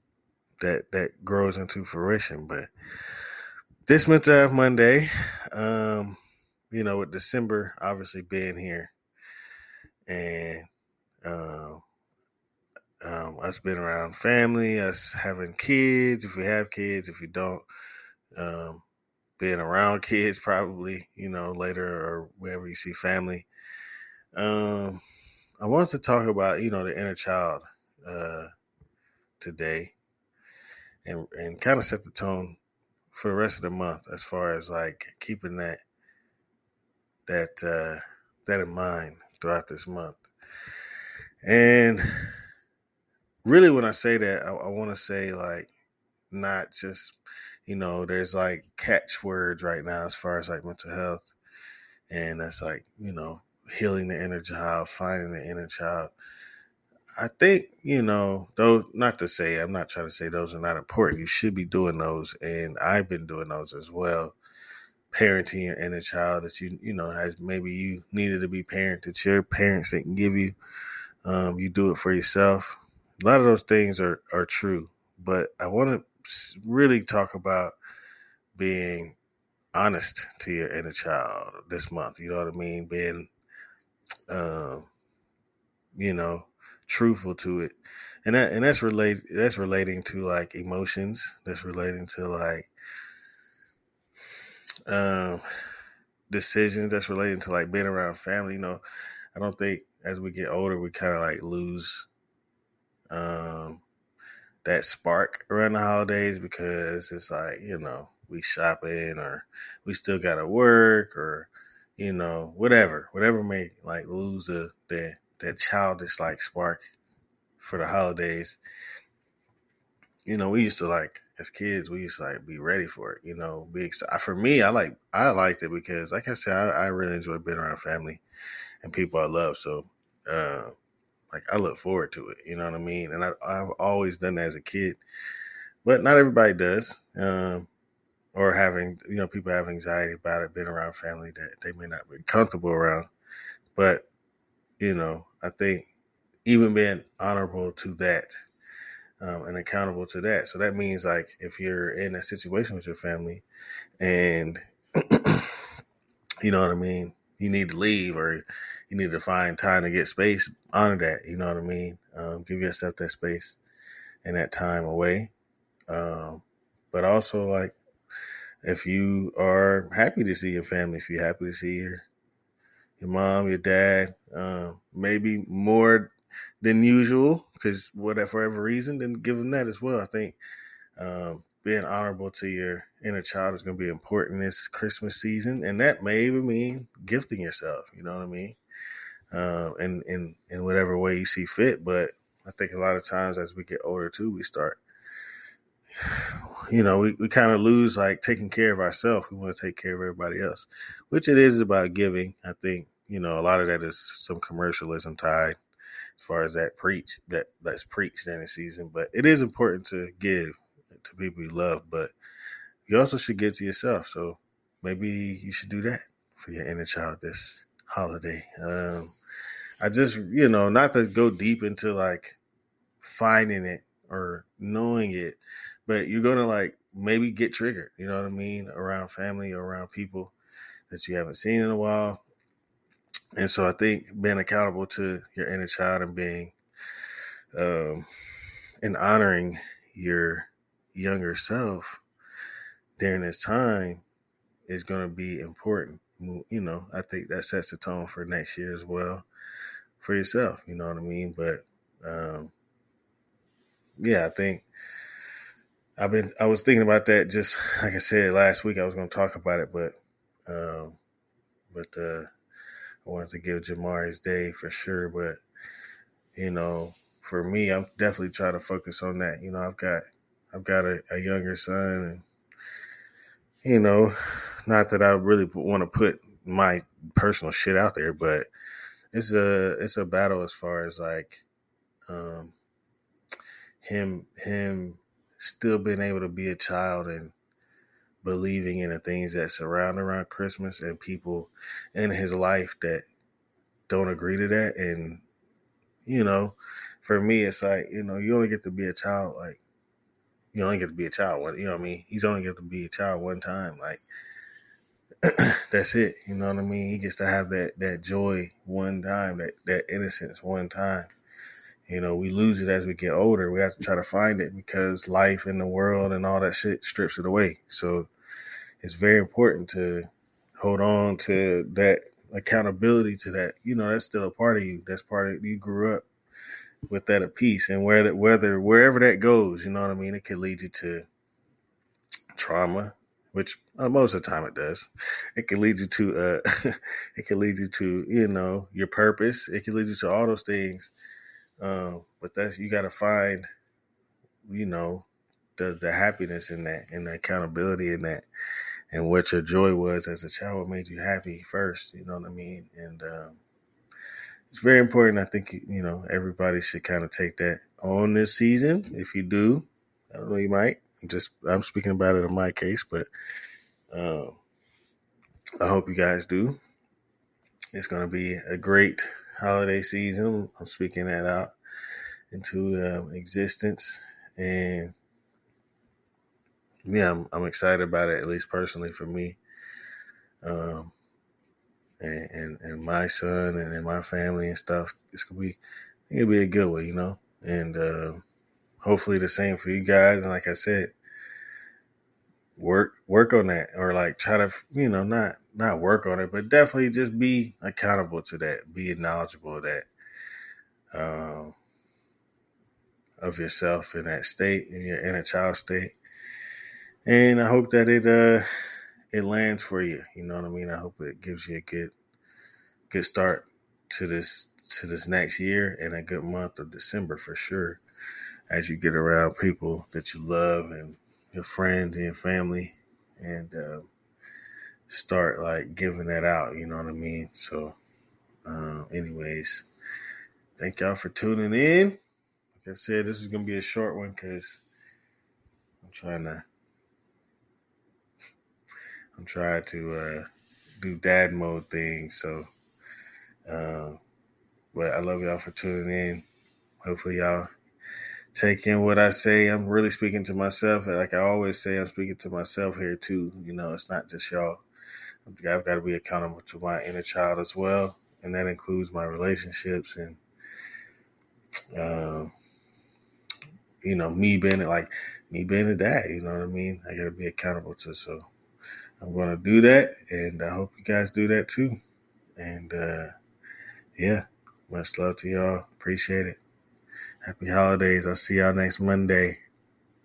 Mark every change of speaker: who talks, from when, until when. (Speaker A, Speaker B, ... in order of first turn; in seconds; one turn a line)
Speaker A: 0.6-2.7
Speaker A: 3.9-6.2
Speaker A: 6.7-8.9
Speaker A: 10.1-10.7
Speaker A: 11.2-11.8
Speaker A: 13.0-17.6
Speaker A: 18.3-18.8
Speaker A: 19.4-23.5
Speaker A: 24.3-25.0
Speaker A: 25.6-28.5
Speaker A: 29.4-29.9
Speaker A: 31.0-32.6
Speaker A: 33.1-35.8
Speaker A: 37.2-40.2
Speaker A: 41.4-42.0
Speaker A: 43.4-45.7
Speaker A: 46.3-51.3
Speaker A: 52.1-56.1
Speaker A: 57.2-64.3
Speaker A: 65.1-70.5
Speaker A: 71.2-77.7
Speaker A: 78.5-79.2
Speaker A: 79.7-83.3
Speaker A: 84.3-84.9
Speaker A: 86.0-92.7
Speaker A: 94.9-95.4
Speaker A: 96.3-98.8
Speaker A: 99.3-102.1
Speaker A: 103.1-103.8
Speaker A: 104.6-116.8
Speaker A: 117.6-118.6
Speaker A: 120.2-128.2
Speaker A: 128.8-130.7
Speaker A: 131.3-135.0
Speaker A: 135.8-137.7
Speaker A: 138.3-143.1
Speaker A: 143.8-144.1
Speaker A: 144.8-145.9
Speaker A: 146.4-148.3
Speaker A: 149.2-153.4
Speaker A: 154.0-155.6
Speaker A: 156.4-163.6
Speaker A: 164.2-165.3
Speaker A: 165.9-167.8
Speaker A: 168.6-172.0
Speaker A: 173.0-176.1
Speaker A: 176.6-180.4
Speaker A: 181.0-188.6
Speaker A: 189.3-194.8
Speaker A: 196.0-205.6
Speaker A: 206.2-212.1
Speaker A: 212.9-219.1
Speaker A: 219.8-222.4
Speaker A: 223.0-230.3
Speaker A: 230.9-232.2
Speaker A: 233.3-236.5
Speaker A: 237.5-238.1
Speaker A: 238.8-242.0
Speaker A: 243.0-244.0
Speaker A: 244.7-249.2
Speaker A: 250.0-252.5
Speaker A: 254.0-254.6
Speaker A: 256.0-259.9
Speaker A: 260.5-261.0
Speaker A: 261.7-262.3
Speaker A: 263.0-265.4
Speaker A: 266.3-272.2
Speaker A: 273.6-278.5
Speaker A: 279.1-281.4
Speaker A: 282.1-282.5
Speaker A: 283.8-287.3
Speaker A: 288.2-293.0
Speaker A: 293.9-295.2
Speaker A: 296.1-299.6
Speaker A: 300.5-304.0
Speaker A: 305.2-311.1
Speaker A: 311.9-318.1
Speaker A: 318.8-320.1
Speaker A: 320.6-326.0
Speaker A: 326.9-331.1
Speaker A: 332.3-340.9
Speaker A: 341.6-343.4
Speaker A: 344.4-345.1
Speaker A: 345.6-348.2
Speaker A: 348.9-353.4
Speaker A: 354.5-363.1
Speaker A: 363.9-364.4
Speaker A: 365.6-366.6
Speaker A: 367.7-371.5
Speaker A: 372.3-374.9
Speaker A: 376.9-379.4
Speaker A: 380.4-380.9
Speaker A: 382.0-385.6
Speaker A: 386.1-388.2
Speaker A: 388.8-390.9
Speaker A: 392.6-399.9
Speaker A: 400.9-401.6
Speaker A: 403.2-405.9
Speaker A: 407.1-408.4
Speaker A: 409.1-411.9
Speaker A: 412.9-417.8
Speaker A: 418.5-423.9
Speaker A: 424.9-427.8
Speaker A: 428.4-429.7
Speaker A: 430.6-432.0
Speaker A: 432.6-434.6
Speaker A: 435.8-436.4
Speaker A: 439.1-440.2
Speaker A: 440.8-442.5
Speaker A: 443.4-444.0
Speaker A: 444.7-446.2
Speaker A: 446.8-447.5
Speaker A: 448.3-454.6
Speaker A: 455.2-460.2
Speaker A: 461.7-462.3
Speaker A: 463.8-468.2
Speaker A: 469.0-471.7
Speaker A: 472.4-473.1
Speaker A: 473.9-476.4
Speaker A: 477.2-479.4